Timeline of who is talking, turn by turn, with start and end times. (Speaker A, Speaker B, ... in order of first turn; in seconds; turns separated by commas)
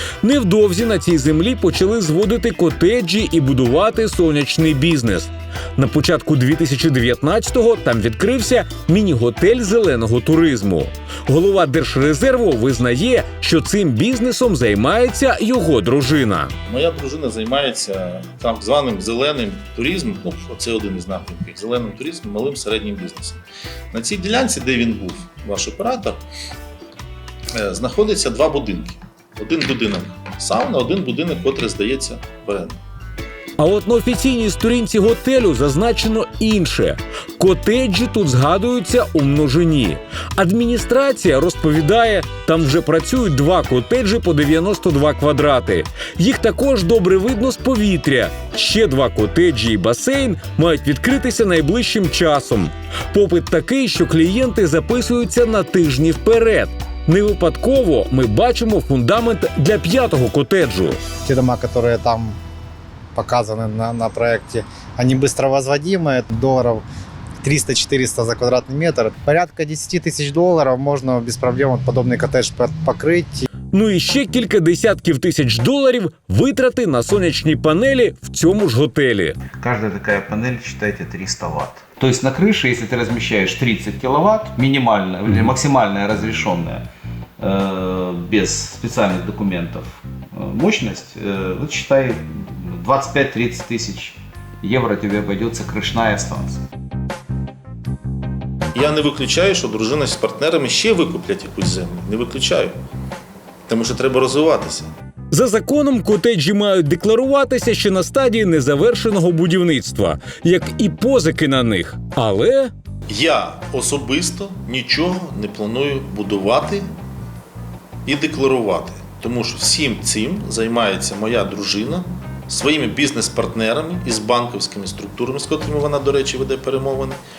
Speaker A: 0.2-16.5, Speaker B: 16.7-26.2, Speaker B: 27.5-32.8, Speaker A: 33.6-61.0, Speaker C: 61.2-62.4, Speaker C: 63.1-66.8, Speaker C: 67.4-73.5, Speaker A: 73.7-79.4, Speaker D: 79.6-86.8, Speaker D: 87.4-96.6, Speaker B: 98.7-102.7, Speaker B: 103.7-104.9, Speaker A: 105.3-112.7, Speaker B: 113.1-116.8, Speaker B: 118.0-127.2